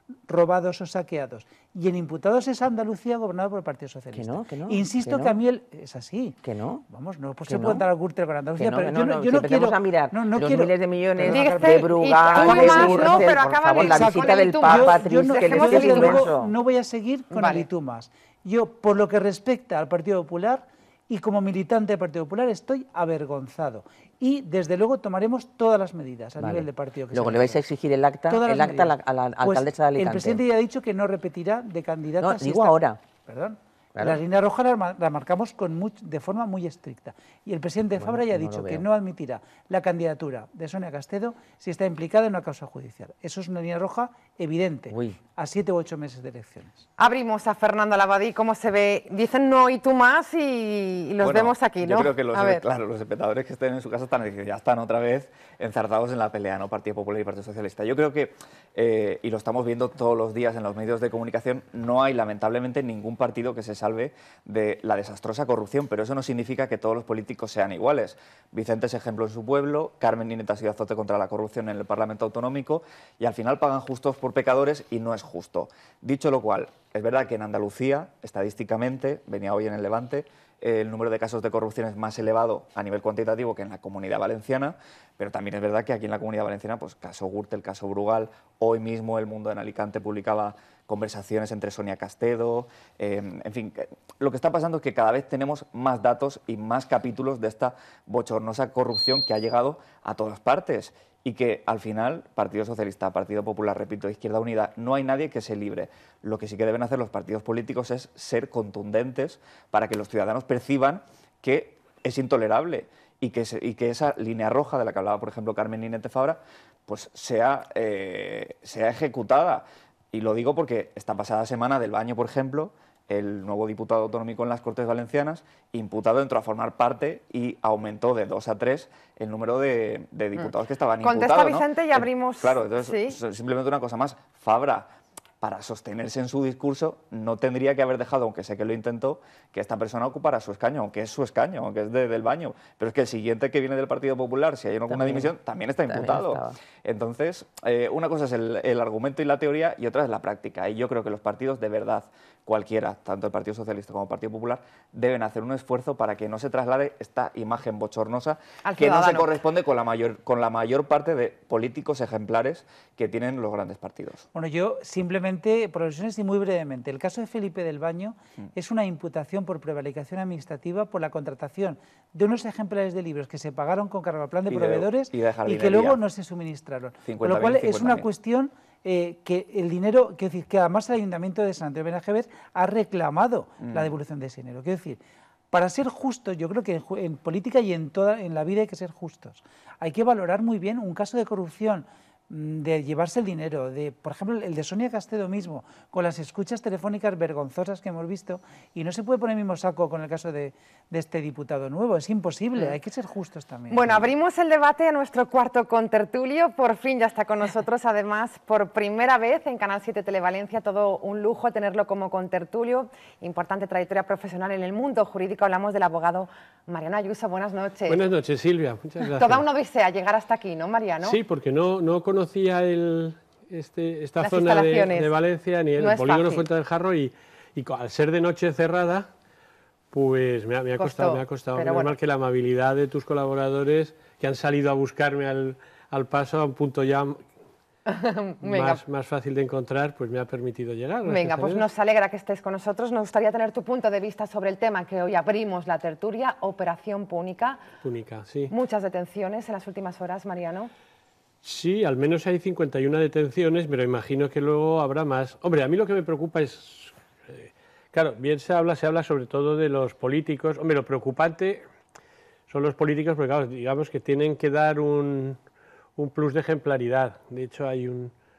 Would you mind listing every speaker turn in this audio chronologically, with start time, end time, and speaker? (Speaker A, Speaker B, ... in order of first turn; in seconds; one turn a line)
Speaker A: 0.3-27.6
Speaker B: 4.1-5.3
Speaker B: 6.4-6.8
Speaker B: 7.5-7.8
Speaker B: 8.6-16.5
Speaker C: 11.3-16.3
Speaker C: 17.3-17.7
Speaker B: 26.4-30.4
Speaker A: 28.3-46.8
Speaker B: 32.2-33.0
Speaker B: 33.9-34.2
Speaker B: 38.0-38.8
Speaker B: 44.9-45.2
Speaker C: 47.0-52.6
Speaker D: 51.2-134.9
Speaker C: 131.0-133.2
Speaker D: 135.4-164.2
Speaker B: 144.9-145.3
Speaker B: 145.9-146.6
Speaker C: 158.7-159.3
Speaker A: 164.3-185.0
Speaker D: 174.5-176.0
Speaker D: 177.1-178.1
Speaker D: 183.6-183.9
Speaker A: 185.5-204.0
Speaker C: 203.7-218.0
Speaker E: 217.9-219.4
Speaker C: 219.2-221.2
Speaker E: 221.0-229.1
Speaker C: 224.2-225.1
Speaker C: 225.8-226.4
Speaker E: 229.9-237.2
Speaker C: 230.8-231.9
Speaker C: 237.9-238.8
Speaker E: 238.4-241.7
Speaker C: 241.0-247.6
Speaker E: 247.8-248.5
Speaker C: 248.5-250.7
Speaker E: 251.4-261.6
Speaker E: 262.5-265.4
Speaker E: 266.0-268.1